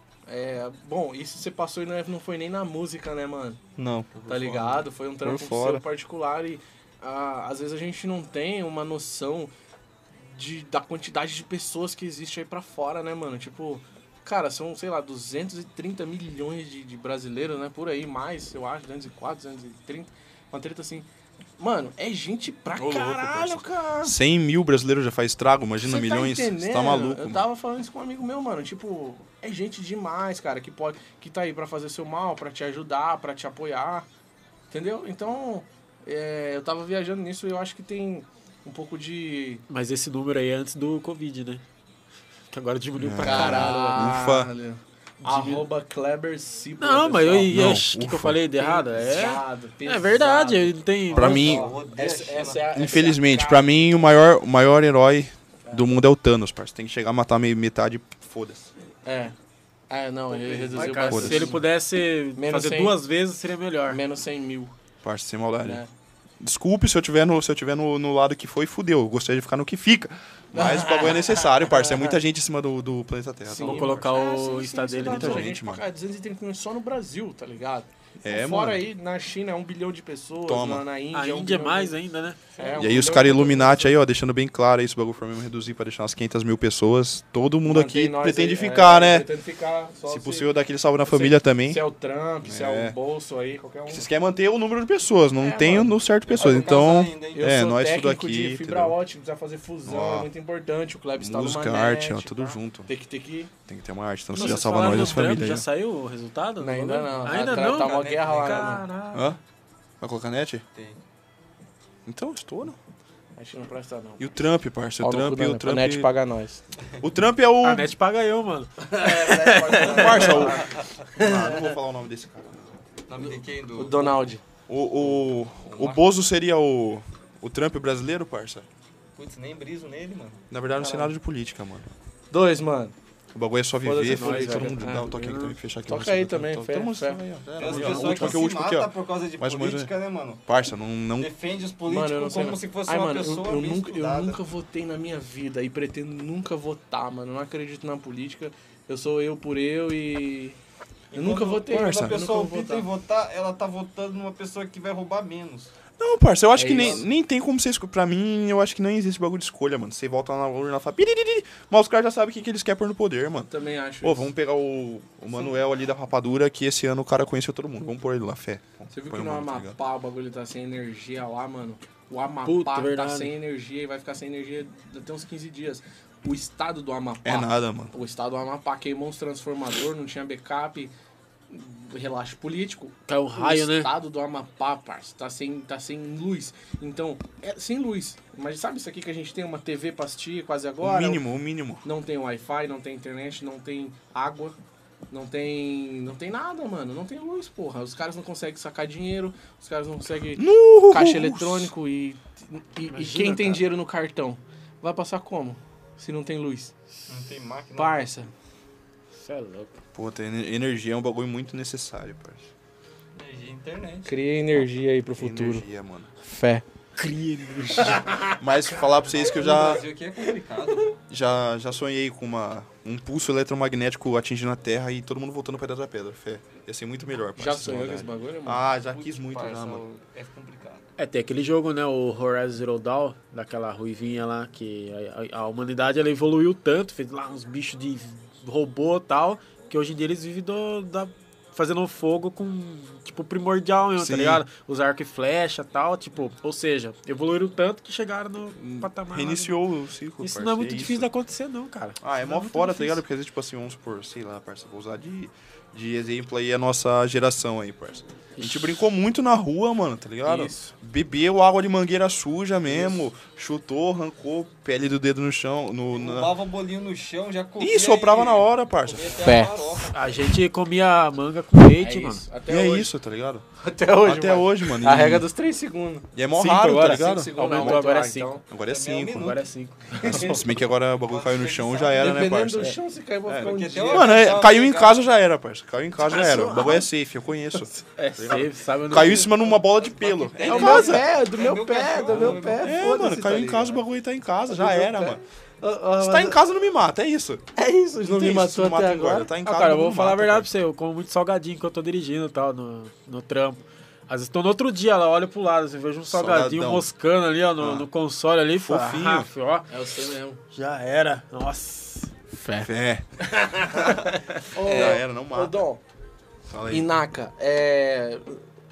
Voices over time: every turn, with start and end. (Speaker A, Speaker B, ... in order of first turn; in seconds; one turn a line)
Speaker A: 0.3-3.6
Speaker B: 3.8-4.1
Speaker C: 4.1-4.9
Speaker A: 4.3-9.5
Speaker B: 5.2-5.8
Speaker A: 10.2-21.1
Speaker A: 21.6-24.2
Speaker C: 22.8-27.4
Speaker A: 25.8-34.1
Speaker A: 34.7-39.6
Speaker D: 39.7-41.6
Speaker D: 42.5-44.1
Speaker C: 43.0-44.5
Speaker A: 43.2-47.6
Speaker D: 45.2-45.6
Speaker D: 46.8-51.5
Speaker C: 47.5-48.4
Speaker A: 48.5-53.7
Speaker C: 51.1-51.7
Speaker B: 51.1-52.8
Speaker C: 52.7-58.7
Speaker A: 59.0-59.3
Speaker A: 59.9-61.6
Speaker D: 60.7-64.0
Speaker C: 60.9-61.6
Speaker A: 62.4-63.0
Speaker A: 63.9-64.7
Speaker C: 65.0-65.8
Speaker A: 65.6-65.9
Speaker C: 66.4-74.1
Speaker A: 70.5-72.2
Speaker A: 73.5-82.0
Speaker D: 73.6-75.5
Speaker C: 75.0-75.8
Speaker C: 78.2-78.8
Speaker C: 80.4-80.8
Speaker D: 81.1-82.4
Speaker A: 82.5-84.0
Speaker C: 82.8-89.3
Speaker A: 87.6-90.5
Speaker C: 90.1-91.8
Speaker A: 91.0-94.1
Speaker C: 92.4-93.0
Speaker C: 93.9-99.0
Speaker A: 95.4-103.5
Speaker B: 96.3-97.5
Speaker C: 99.8-100.3
Speaker C: 101.2-102.9
Speaker C: 103.7-105.7
Speaker D: 104.3-109.3
Speaker A: 104.4-105.2
Speaker A: 106.6-108.8
Speaker B: 107.3-108.8
Speaker C: 109.1-109.4
Speaker C: 110.0-110.6
Speaker B: 110.7-111.0
Speaker C: 112.0-112.8
Speaker A: 113.4-114.2
Speaker C: 114.2-116.1
Speaker A: 115.0-116.6
Speaker C: 117.0-117.9
Speaker D: 117.6-120.4
Speaker A: 118.9-121.7
Speaker B: 119.5-120.9
Speaker C: 119.8-122.8
Speaker B: 123.1-124.2
Speaker A: 123.2-124.4
Speaker C: 124.7-128.7
Speaker B: 125.0-126.0
Speaker B: 129.2-130.4
Speaker C: 130.5-131.9
Speaker A: 130.8-131.1
Speaker A: 132.3-132.9
Speaker C: 133.3-139.9
Speaker A: 133.8-135.1
Speaker D: 134.1-135.6
Speaker A: 135.9-137.2
Speaker B: 137.6-140.4
Speaker D: 137.7-138.4
Speaker C: 140.4-141.3
Speaker B: 141.2-144.4
Speaker A: 141.9-150.6
Speaker B: 151.1-155.7
Speaker A: 151.1-152.9
Speaker C: 151.7-152.2
Speaker C: 156.0-163.5
Speaker A: 156.5-157.1
Speaker A: 163.5-164.3
Speaker C: 164.0-169.8
Speaker A: 168.9-180.9
Speaker D: 172.4-173.3
Speaker C: 177.2-177.9
Speaker A: 181.5-191.2
Speaker D: 183.1-183.9
Speaker C: 190.8-191.8
Speaker A: 191.8-194.6
Speaker A: 195.1-206.7
Speaker C: 200.3-201.7
Speaker D: 202.9-203.6
Speaker B: 207.1-208.1
Speaker A: 207.8-208.3
Speaker D: 209.1-209.8
Speaker C: 209.9-212.5
Speaker B: 213.2-214.1
Speaker A: 214.1-215.7
Speaker C: 215.2-216.1
Speaker A: 216.2-216.6
Speaker D: 217.0-218.2
Speaker A: 217.8-218.3
Speaker C: 218.4-219.8
Speaker B: 219.1-221.0
Speaker C: 221.1-229.8
Speaker A: 227.4-228.7
Speaker B: 228.9-230.9
Speaker D: 231.0-249.6
Speaker C: 244.0-244.4
Speaker C: 248.6-251.1
Speaker D: 250.2-253.0
Speaker C: 252.0-266.3
Speaker D: 260.2-260.7
Speaker A: 262.7-263.0
Speaker B: 265.9-270.1
Speaker C: 267.6-269.2
Speaker A: 269.2-269.6
Speaker D: 269.9-272.2
Speaker A: 271.7-272.9
Speaker C: 272.5-273.4
Speaker A: 273.6-278.4
Speaker C: 274.0-275.3
Speaker C: 276.1-277.9
Speaker D: 276.4-278.3
Speaker C: 278.5-279.4
Speaker B: 278.7-279.4
Speaker D: 279.1-280.4
Speaker A: 280.0-280.4
Speaker C: 280.0-291.1
Speaker B: 281.1-282.3
Speaker A: 281.9-284.4
Speaker B: 283.4-285.0
Speaker A: 286.0-286.9
Speaker A: 287.5-287.8
Speaker D: 288.0-289.5
Speaker B: 289.8-292.9
Speaker A: 290.4-293.8
Speaker C: 292.2-295.2
Speaker A: 294.5-296.4
Speaker C: 296.0-297.4
Speaker A: 297.6-299.3
Speaker C: 298.0-300.5
Speaker D: 299.4-309.7
Speaker C: 306.1-306.9
Speaker C: 307.6-307.9
Speaker C: 308.5-309.3
Speaker A: 309.7-310.4
Speaker D: 310.5-312.1
Speaker A: 312.3-312.7
Speaker C: 312.6-315.6
Speaker A: 314.5-315.8
Speaker B: 314.7-315.0
Speaker C: 316.5-316.9
Speaker A: 316.7-318.4